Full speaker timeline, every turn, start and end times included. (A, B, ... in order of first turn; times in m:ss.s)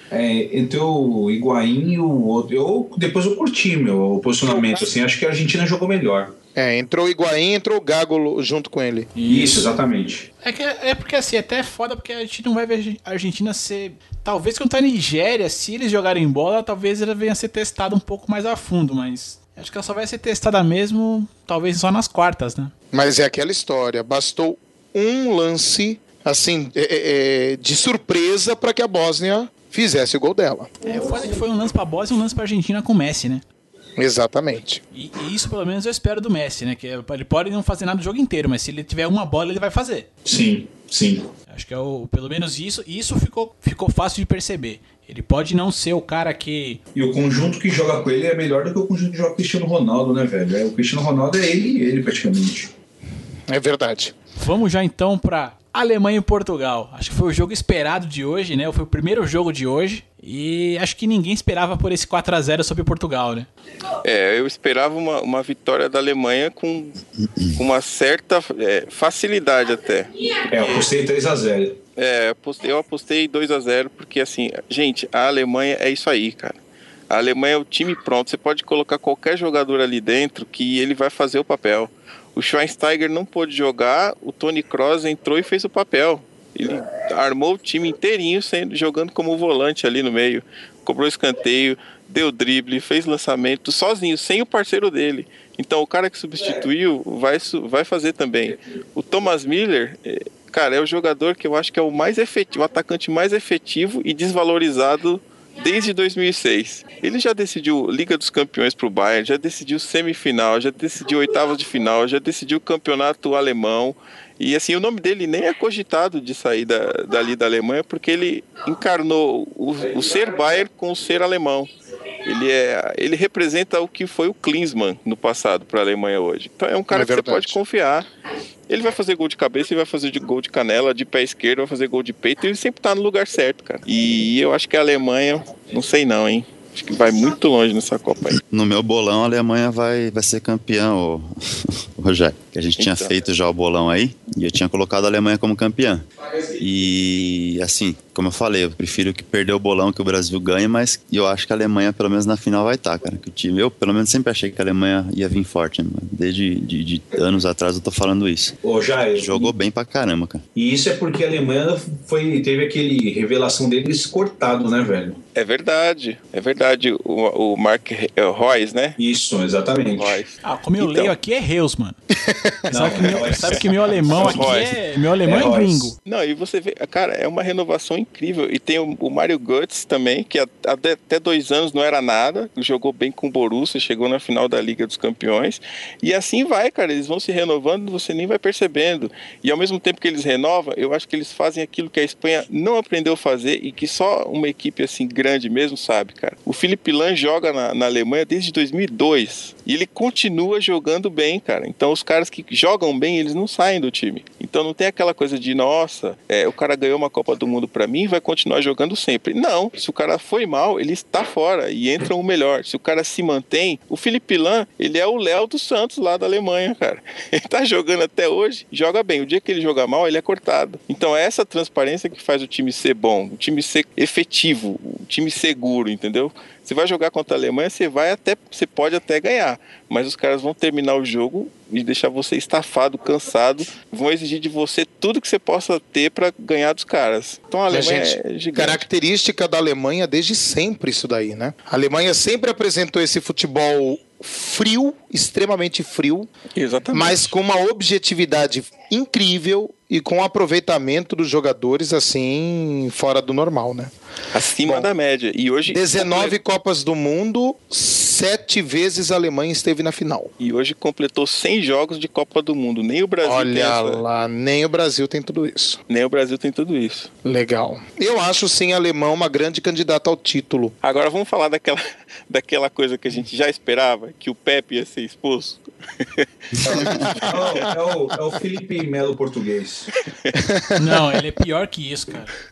0:00.1-0:06.3 A
0:04.5-0:04.9 B
0:06.6-0:09.1 B
0:09.2-0:09.7 C
0:09.2-0:10.3 A
0:10.4-0:22.7 C
0:22.9-0:30.7 B
0:30.8-0:33.4 C
0:34.0-0:34.8 B
0:34.9-0:40.1 C
0:40.3-0:41.3 A
0:41.5-0:46.8 C
0:47.0-0:52.7 A
0:53.5-0:54.1 B
0:54.4-1:03.5 C
1:04.0-1:07.0 D
1:07.2-1:07.6 E
1:07.5-1:10.9 D
1:10.5-1:11.8 A
1:12.0-1:16.6 D
1:17.1-2:01.7 D
2:02.2-2:08.1 D
2:06.9-2:07.6 B
2:08.7-2:18.4 D
2:18.4-2:26.0 E
2:22.8-2:23.2 D
2:26.6-2:38.6 E
2:38.6-2:39.5 A
2:39.1-2:40.4 E
2:40.6-2:45.2 A
2:45.4-2:49.0 D
2:49.0-2:50.2 A
2:50.0-2:51.1 D
2:50.4-2:52.0 C
2:52.2-2:53.0 B
2:52.7-2:54.7 A
2:52.7-2:56.0 C
2:54.1-2:54.7 D
2:55.2-2:55.9 A
2:56.1-3:58.8 D
3:57.7-4:06.3 B
4:06.6-4:07.3 D
4:06.9-4:13.9 B
4:14.3-4:16.4 D
4:15.7-4:20.3 B
4:20.4-4:24.0 D
4:23.2-4:25.8 B
4:25.9-4:27.1 D
4:27.2-4:30.8 B
4:30.8-4:37.6 D
4:36.6-4:37.0 E
4:36.6-4:37.3 B
4:37.3-4:39.9 A
4:40.4-4:40.8 B
4:40.8-4:42.3 C